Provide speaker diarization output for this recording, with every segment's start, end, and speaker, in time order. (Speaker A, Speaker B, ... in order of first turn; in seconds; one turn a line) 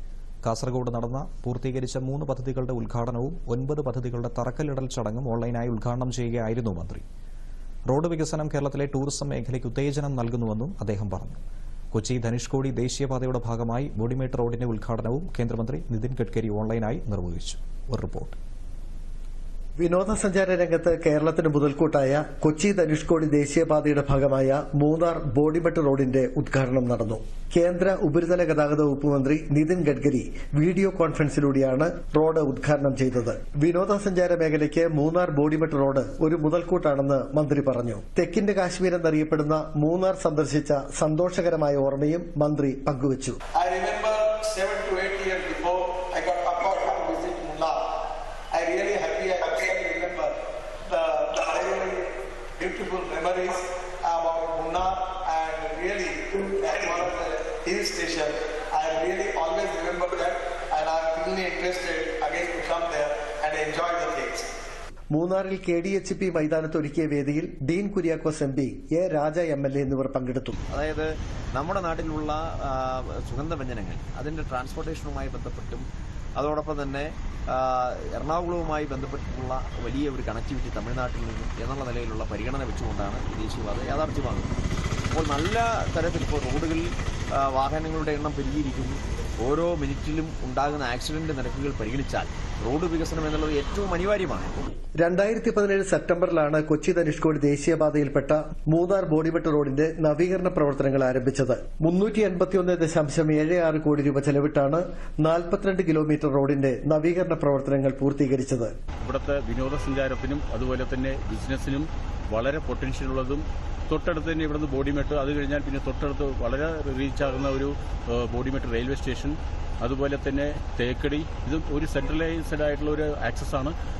Speaker A: 0.4-7.0
Speaker A: 7.9-18.4
Speaker B: 19.8-43.4
Speaker C: 43.5-47.8
Speaker C: 48.5-50.3
Speaker C: 50.9-64.5
Speaker B: 65.1-70.6
Speaker D: 70.7-84.5
Speaker D: 85.1-94.7
Speaker B: 95.0-108.7
Speaker E: 109.0-123.7